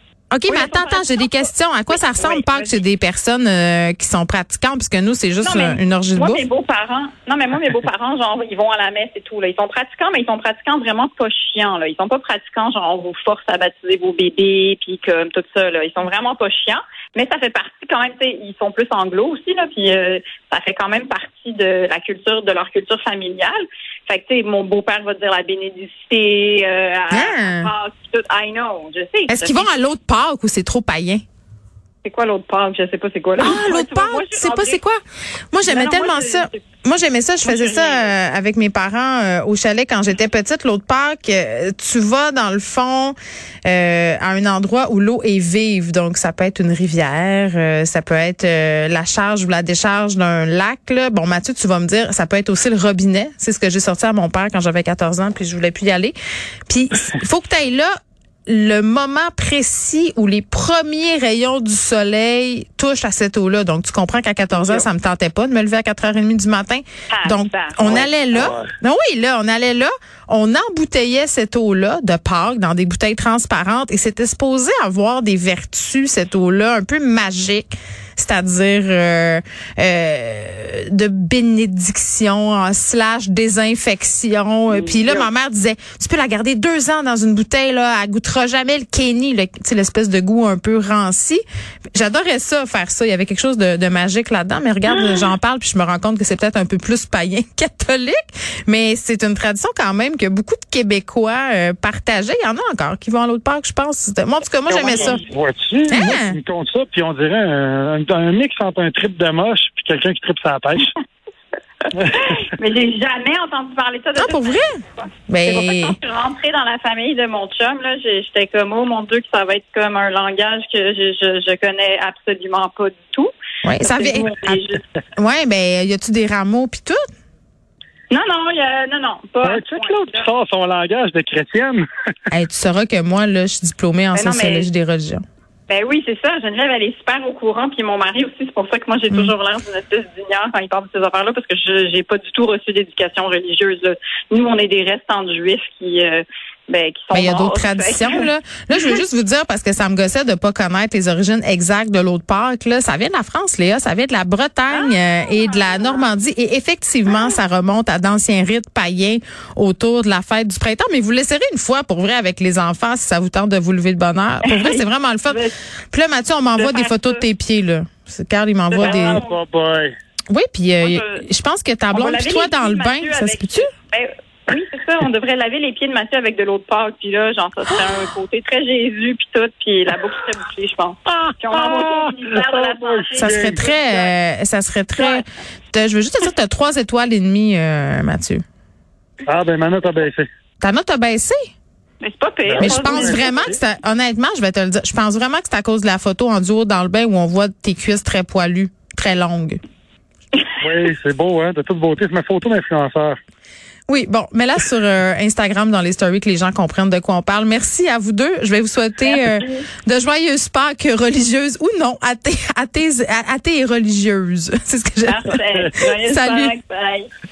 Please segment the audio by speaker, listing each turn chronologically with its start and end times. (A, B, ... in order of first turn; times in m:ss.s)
0:00.3-0:06.4 A
0:00.4-0:02.8 B
0:05.4-0:29.7 B
0:27.1-0:27.7 A
0:29.3-0:31.2 A
0:32.0-0:34.8 B
0:33.4-0:35.0 A
0:35.5-0:43.1 A
0:35.6-0:36.6 B
0:37.4-0:38.1 B
0:43.6-0:56.1 A
0:56.7-0:57.9 A
0:58.5-1:31.4 A
1:04.5-1:04.8 C
1:07.1-1:08.1 B
1:07.8-1:08.7 C
1:24.7-1:25.3 B
1:31.9-1:45.2 A
1:35.0-1:35.2 B
1:44.7-1:50.9 C
1:44.9-1:45.2 B
1:45.9-1:46.4 A
1:52.1-2:04.8 B
1:54.2-1:56.0 A
2:03.6-2:04.6 A
2:05.2-2:07.0 A
2:08.1-2:10.3 B
2:09.4-2:11.8 C
2:12.3-2:15.2 A
2:14.1-2:14.7 B
2:15.7-2:28.3 B
2:27.1-2:49.2 A
2:34.7-2:36.1 B
2:44.4-2:45.5 B
2:46.5-2:47.2 B
2:48.7-2:49.4 B
2:48.7-2:49.9 C
2:50.3-2:53.7 A
2:50.8-2:51.2 B
2:51.9-3:04.1 B
3:01.1-3:03.7 C
3:03.1-3:08.4 A
3:05.0-3:05.2 B
3:09.2-3:10.3 C
3:10.6-3:11.5 A
3:12.0-3:13.4 B
3:12.4-3:13.6 C
3:12.6-3:19.6 A
3:20.6-3:23.2 C
3:23.9-3:35.3 A
3:29.0-3:29.6 B
3:35.0-3:37.1 B
3:35.9-3:36.5 A